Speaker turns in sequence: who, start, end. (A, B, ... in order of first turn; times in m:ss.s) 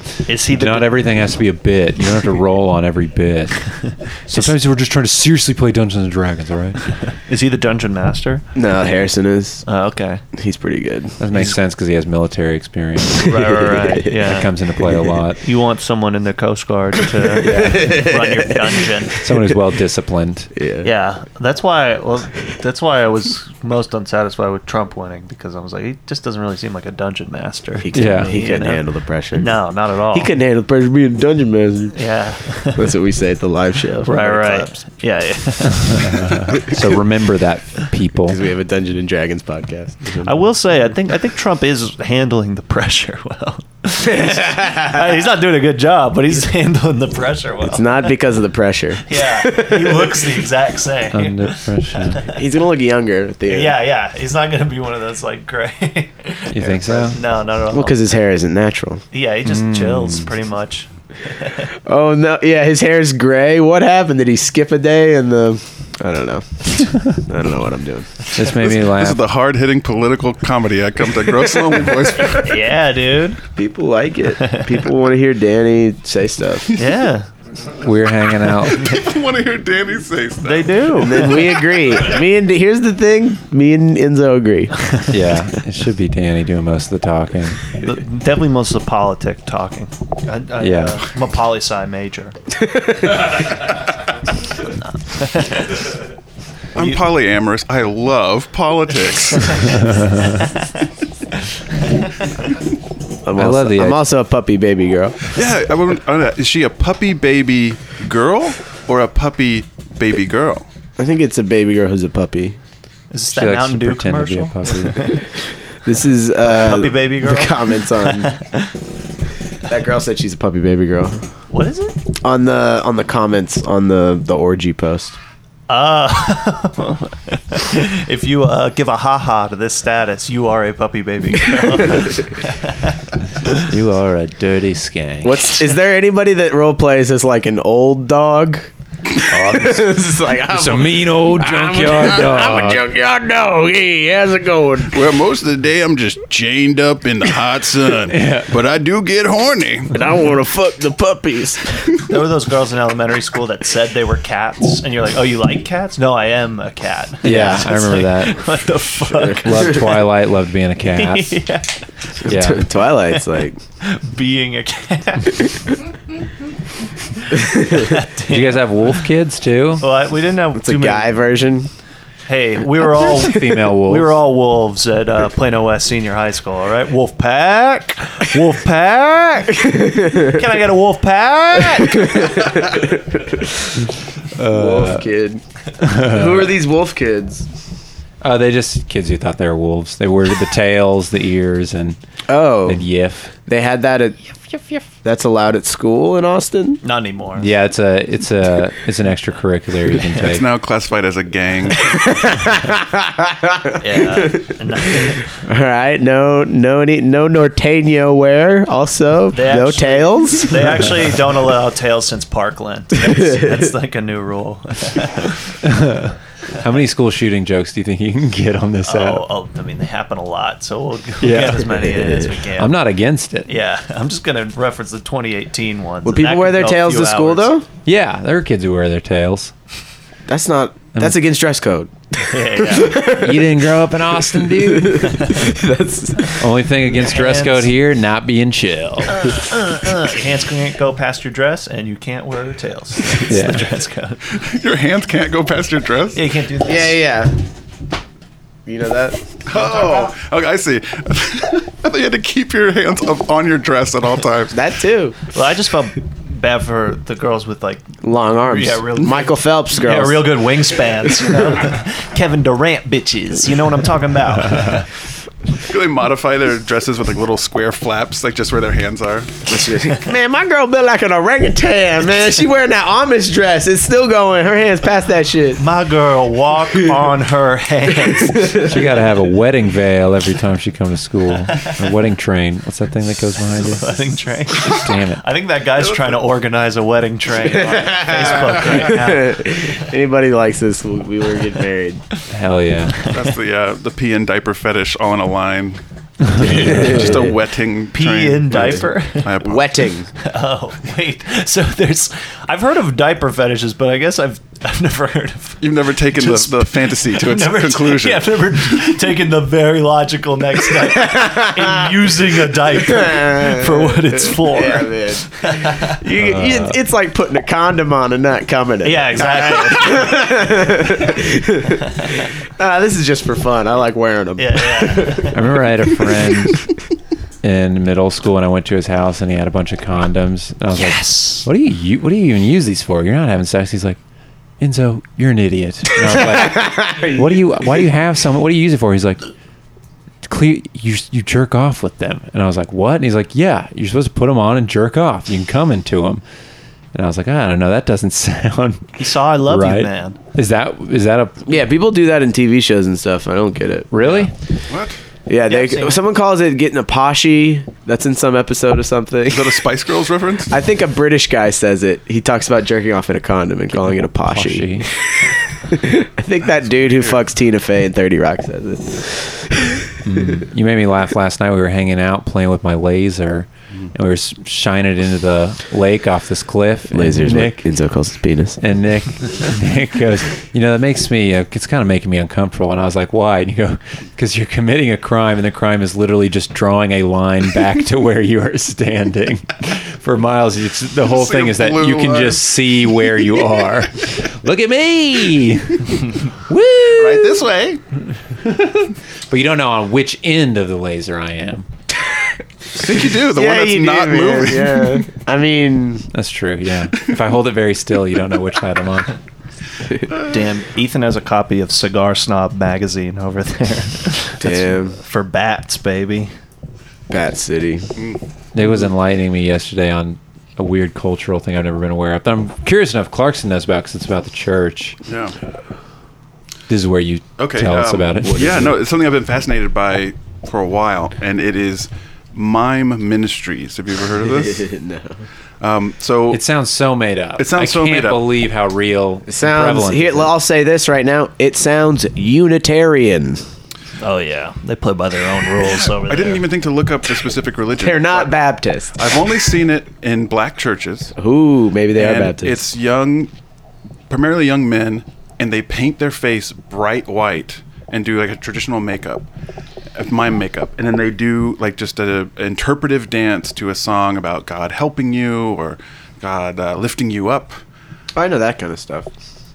0:00.3-0:01.0 A
0:00.5-0:03.6 B
0:04.3-0:06.8 B
0:07.1-0:08.4 A
0:08.5-0:09.6 C
0:09.6-0:10.2 A
0:10.4-0:11.2 C
0:11.2-0:13.5 B
0:13.2-0:14.5 A
0:13.6-0:13.9 C
0:14.1-0:15.4 B
0:15.4-0:19.2 A
0:17.4-0:18.5 C
0:17.4-0:18.0 B
0:19.2-0:20.5 B
0:20.6-0:20.9 C
0:20.8-0:28.8 A
0:27.8-0:29.6 C
0:27.9-0:28.4 B
0:29.4-0:30.3 A
0:30.1-0:32.0 C
0:31.9-0:32.8 A
0:32.7-0:34.8 C
0:34.0-0:36.2 A
0:35.8-0:38.4 B
0:38.3-0:40.4 C
0:40.2-0:48.1 A
0:44.0-0:45.0 C
0:47.7-0:50.4 C
0:49.0-0:52.4 A
0:51.1-0:52.2 B
0:52.3-0:53.8 C
0:53.5-0:58.0 A
0:56.5-0:57.2 B
0:57.7-0:59.0 C
0:59.1-1:01.6 A
0:59.4-1:00.3 B
1:01.9-1:08.1 C
1:08.4-1:09.2 B
1:08.4-1:12.5 D
1:12.4-1:13.4 A
1:13.6-1:16.7 C
1:14.4-1:14.6 A
1:16.8-1:17.3 A
1:17.8-1:18.9 B
1:18.8-1:21.3 D
1:20.4-1:21.5 A
1:21.0-1:24.7 C
1:25.1-1:27.7 B
1:27.8-1:32.4 A
1:30.6-1:31.0 B
1:32.6-1:33.4 C
1:35.1-1:35.8 A
1:36.8-1:39.8 D
1:39.9-1:40.3 B
1:43.2-1:45.3 C
1:43.4-1:44.0 B
1:45.3-1:50.6 D
1:51.0-1:52.6 C
1:53.1-1:55.2 A
1:53.3-1:55.0 B
1:55.8-1:58.3 C
1:56.4-1:58.7 A
1:59.7-2:01.2 C
2:01.5-2:02.0 A
2:02.2-2:05.2 C
2:05.7-2:13.0 A
2:13.5-2:15.6 B
2:15.2-2:25.1 C
2:19.3-2:22.8 B
2:24.9-2:29.9 D
2:28.1-2:28.5 B
2:29.9-2:32.0 C
2:32.1-2:39.8 A
2:37.2-2:38.4 B
2:37.3-2:37.6 C
2:39.1-2:39.9 C
2:39.4-2:41.4 B
2:41.0-2:41.8 A
2:42.2-2:43.6 C
2:42.2-2:42.7 B
2:43.8-2:45.6 A
2:47.4-2:47.8 C
2:47.6-2:49.0 A
2:48.3-2:49.8 B
2:49.8-2:51.1 A
2:50.5-2:51.7 C
2:52.3-2:59.6 A
2:52.9-2:54.2 B
2:59.6-3:00.4 C
3:00.2-3:02.4 A
3:01.8-3:03.7 C
3:04.4-3:05.1 B
3:04.4-3:07.5 C
3:05.8-3:06.5 B
3:08.2-3:12.0 B
3:12.3-3:12.8 C
3:12.6-3:13.3 B
3:13.5-3:14.2 C
3:15.0-3:16.8 C
3:16.8-3:17.5 A
3:17.4-3:20.4 B
3:20.2-3:22.0 D
3:21.8-3:24.5 C
3:23.8-3:25.3 A
3:25.0-3:30.8 C
3:29.3-3:35.5 A
3:33.1-3:33.5 C
3:35.6-3:39.3 B
3:38.8-3:42.8 A
3:41.2-3:41.9 B
3:41.8-3:42.3 C
3:42.6-3:43.5 B
3:43.5-3:47.5 A
3:46.0-3:47.6 C
3:47.8-3:49.5 B
3:50.3-3:51.9 C
3:52.2-3:53.0 A
3:52.5-3:53.6 C
3:53.0-3:55.2 B
3:54.5-3:56.4 C
3:55.1-3:55.5 A
3:56.3-3:59.2 B
3:56.9-3:57.7 A
3:59.1-4:04.2 A
4:03.3-4:03.6 B
4:04.3-4:06.2 D
4:06.1-4:07.0 A
4:06.6-4:07.4 C
4:08.6-4:09.2 C
4:09.5-4:14.5 D
4:14.5-4:15.2 C
4:15.3-4:24.9 A
4:18.0-4:20.4 C
4:25.6-4:29.4 D
4:29.5-4:35.6 C
4:35.6-4:38.7 A
4:38.1-4:38.8 C
4:38.6-4:43.9 B
4:43.6-4:49.8 A
4:44.7-4:45.2 B
4:47.5-4:52.0 C
4:52.3-4:53.0 B
4:53.1-4:55.8 D
4:56.3-4:57.2 B
4:56.4-4:59.8 D
4:56.4-4:57.3 C
4:57.9-4:59.3 A
4:58.5-4:58.8 C
4:59.4-5:00.1 C
5:00.2-5:15.9 A
5:05.6-5:08.9 D
5:10.9-5:11.7 C
5:12.6-5:25.4 C
5:16.2-5:16.8 B
5:18.8-5:20.2 A
5:24.4-5:25.4 A
5:25.3-5:26.6 B
5:27.4-5:34.0 B
5:30.7-5:31.5 A
5:34.6-5:39.2 B
5:36.2-5:37.1 C
5:40.2-5:46.2 B
5:46.9-5:51.6 B
5:49.0-5:50.2 A
5:51.5-5:53.9 C
5:53.9-5:54.3 B
5:54.7-5:55.0 D
5:55.3-5:59.6 C
5:55.5-5:56.0 A
5:59.3-6:00.5 D
6:00.5-6:04.9 C
6:04.2-6:04.9 B
6:05.7-6:09.8 C
6:06.6-6:07.2 D
6:10.0-6:17.6 B
6:16.9-6:18.6 C
6:18.6-6:37.4 B
6:31.0-6:32.8 D
6:36.9-6:37.8 D
6:38.4-6:41.6 B
6:42.8-6:45.0 D
6:42.8-6:46.1 C
6:46.1-6:49.1 B
6:50.3-6:56.3 A
6:54.4-6:55.0 C
6:57.1-6:57.9 C
6:58.5-7:05.0 B
7:05.1-7:05.3 D
7:06.7-7:08.8 B
7:07.4-7:14.7 D
7:14.2-7:15.2 C
7:15.6-7:16.4 D
7:16.3-7:20.4 B
7:17.4-7:18.2 D
7:19.3-7:23.4 C
7:24.0-7:26.4 A
7:25.6-7:28.4 D
7:27.8-7:29.0 C
7:28.9-7:31.1 D
7:31.2-7:32.6 C
7:31.9-7:33.3 D
7:34.1-7:39.2 D
7:39.9-7:47.6 D
7:48.1-7:49.1 C